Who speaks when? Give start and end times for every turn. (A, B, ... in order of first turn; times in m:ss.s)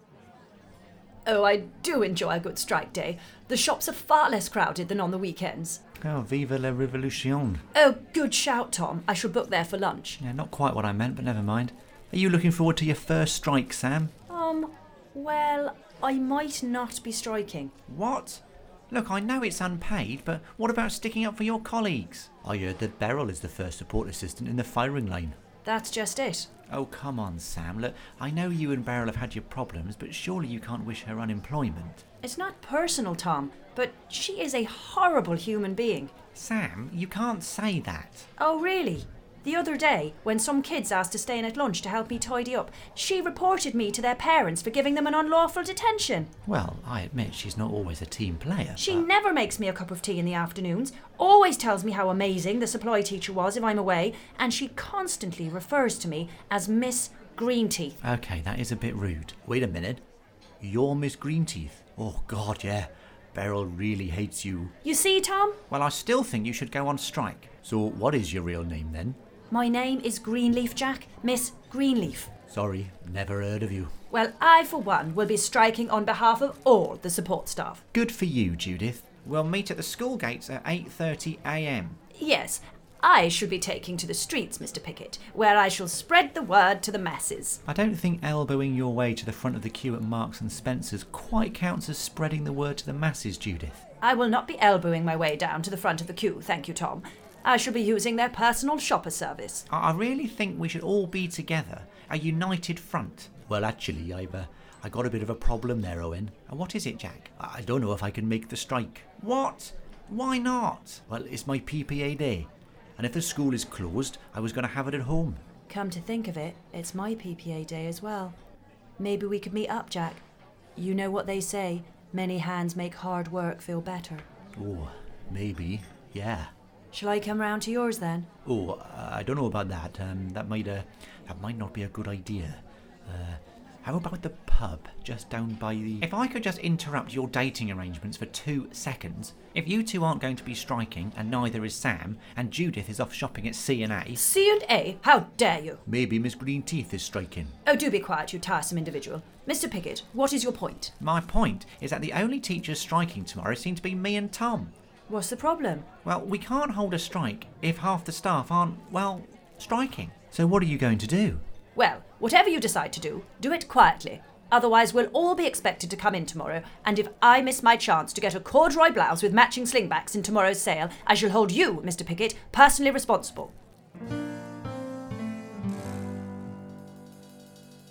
0:01.3-0:05.8 A
0:06.0-0:07.6 B
0:07.7-0:10.2 A
0:10.2-0:14.1 B
0:14.3-0:17.7 A
0:17.9-0:25.4 B
0:25.6-0:26.5 A
0:26.7-0:32.0 B
0:32.2-0:36.1 A
0:36.4-0:38.3 B
0:38.4-0:46.3 A
0:46.5-0:49.1 B
0:48.8-0:58.0 A
0:58.0-1:00.0 B
1:00.6-1:04.7 B
1:04.8-1:05.6 A
1:05.7-1:09.2 B
1:09.5-1:12.3 A
1:12.5-1:13.9 B
1:14.1-1:17.8 A
1:17.9-1:22.0 B
1:22.1-1:27.6 A
1:27.7-1:33.8 B
1:34.0-1:39.6 A
1:39.7-1:55.4 B
1:55.7-1:58.4 A
1:59.0-2:00.2 A
2:00.8-2:04.3 A
2:04.6-2:06.5 B
2:06.9-2:08.3 A
2:08.4-2:24.2 B
2:24.1-2:25.8 A
2:25.9-2:27.6 B
2:27.6-2:30.9 A
2:31.0-2:34.7 B
2:35.1-2:35.9 A
2:36.0-2:41.4 B
2:41.8-2:53.5 A